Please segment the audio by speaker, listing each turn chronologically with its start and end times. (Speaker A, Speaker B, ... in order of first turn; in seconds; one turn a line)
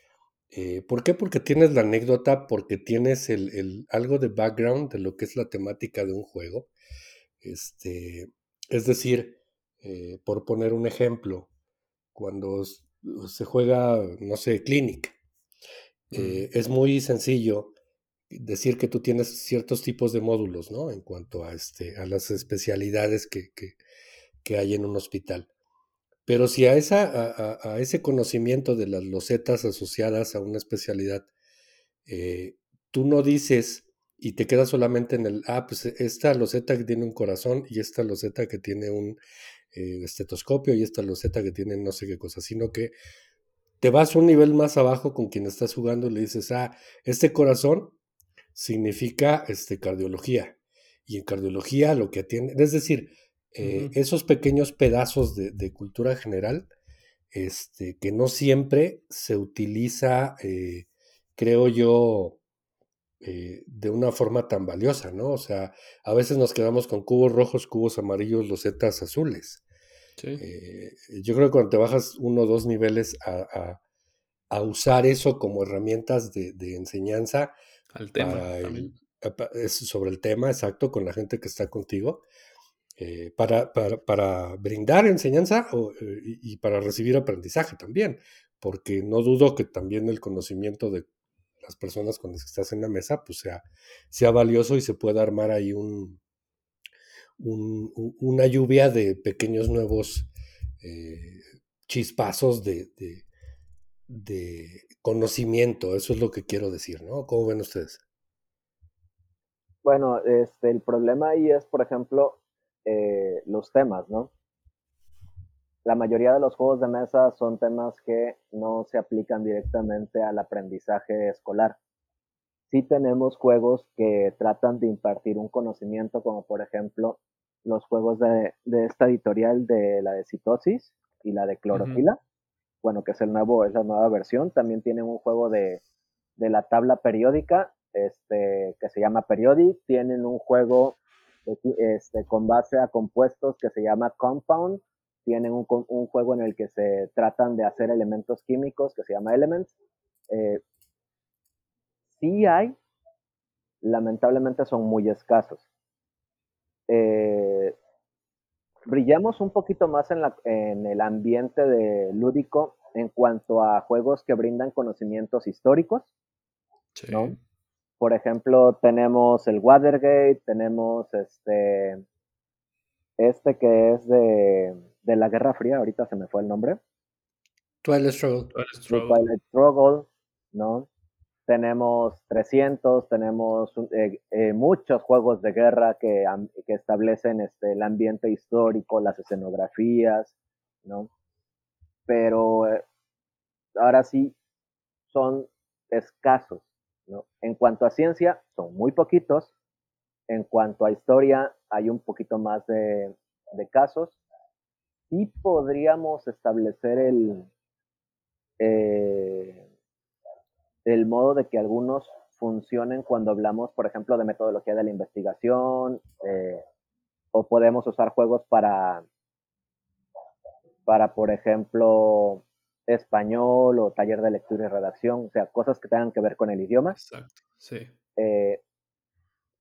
Speaker A: 0.5-6.7
Speaker A: 7.4-11.5
Speaker A: 12.1-15.2
Speaker B: 16.1-16.4
Speaker A: 16.1-17.7
Speaker A: 18.3-23.8
Speaker A: 24.4-25.5
Speaker A: 26.2-31.3
Speaker A: 32.0-39.2
Speaker A: 39.7-42.9
Speaker A: 43.8-48.0
Speaker A: 48.5-50.5
Speaker A: 51.1-56.7
Speaker B: 53.6-53.9
Speaker A: 57.3-62.4
Speaker A: 63.2-69.6
Speaker B: 70.2-70.4
Speaker A: 70.4-73.8
Speaker A: 74.5-77.5
Speaker B: 77.9-78.9
Speaker A: 78.2-82.2
Speaker A: 83.0-91.1
Speaker A: 91.6-96.2
Speaker A: 97.4-100.3
Speaker A: 100.8-103.2
Speaker A: 104.1-108.0
Speaker C: 109.8-114.3
Speaker C: 115.8-121.8
Speaker C: 122.7-132.2
Speaker B: 131.7-132.0
Speaker C: 132.8-135.8
Speaker C: 136.4-149.7
Speaker C: 150.3-150.6
Speaker C: 152.2-152.8
Speaker C: 153.8-155.6
Speaker C: 156.9-157.8
Speaker C: 158.9-166.1
Speaker B: 166.9-167.4
Speaker C: 167.1-167.3
Speaker C: 168.0-172.0
Speaker C: 173.2-176.8
Speaker A: 177.8-178.5
Speaker B: 178.5-179.2
Speaker C: 178.9-180.9
Speaker C: 181.5-191.1
Speaker C: 192.1-192.8
Speaker C: 193.8-194.3
Speaker C: 195.1-199.5
Speaker C: 200.3-204.2
Speaker C: 205.1-207.5
Speaker C: 208.6-209.6
Speaker C: 210.8-216.6
Speaker C: 217.3-219.0
Speaker C: 220.8-226.9
Speaker B: 226.9-227.9
Speaker C: 228.2-228.6